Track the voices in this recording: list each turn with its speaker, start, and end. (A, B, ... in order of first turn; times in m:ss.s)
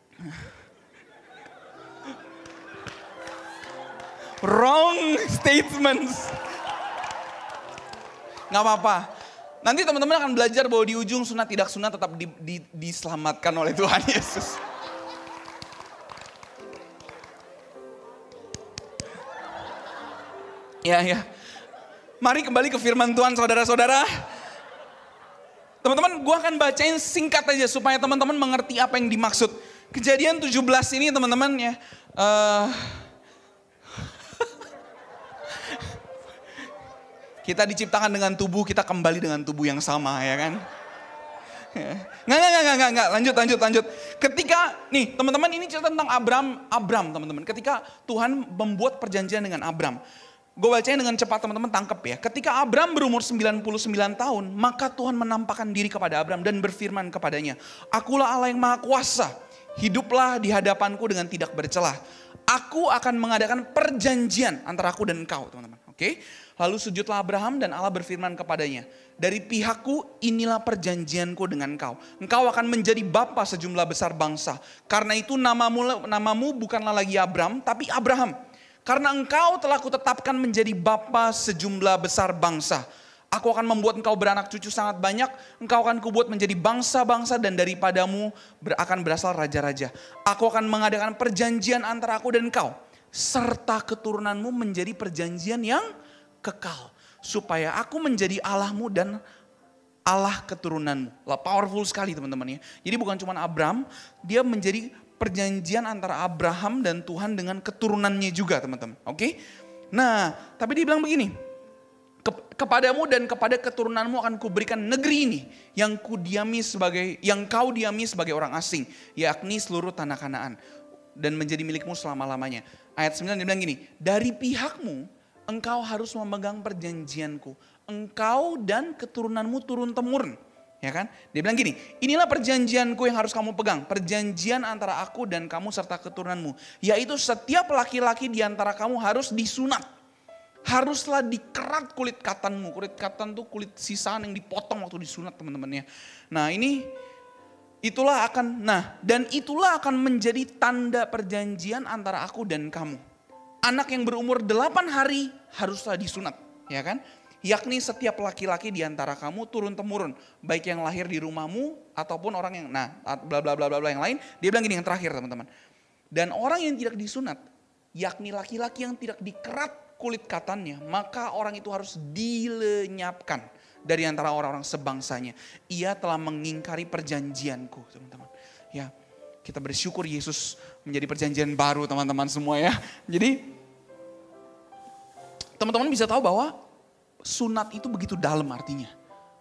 0:00.2-0:00.5 A
0:04.4-0:06.4 A
0:08.5-0:09.1 A
0:09.6-0:14.6 A
0:20.8-0:21.3 A
0:22.2-0:24.3 A
0:25.8-0:33.1 A
0:37.4-0:40.6 A
0:41.7-0:50.0 A
0:50.6-1:02.0 A
1:02.5-1:18.3 A
1:18.8-1:35.9 A
1:36.4-1:39.2 A
1:40.1-1:49.3 A
1:49.9-1:51.3 A
1:52.2-2:00.6 A
2:01.2-2:19.9 A
2:20.7-2:26.9 A
2:27.8-2:33.0 A
2:33.6-2:45.5 A
2:46.1-2:47.4 A
2:48.0-2:58.9 A
2:59.4-3:03.5 A
3:05.6-3:06.5 A
3:07.2-3:08.9 A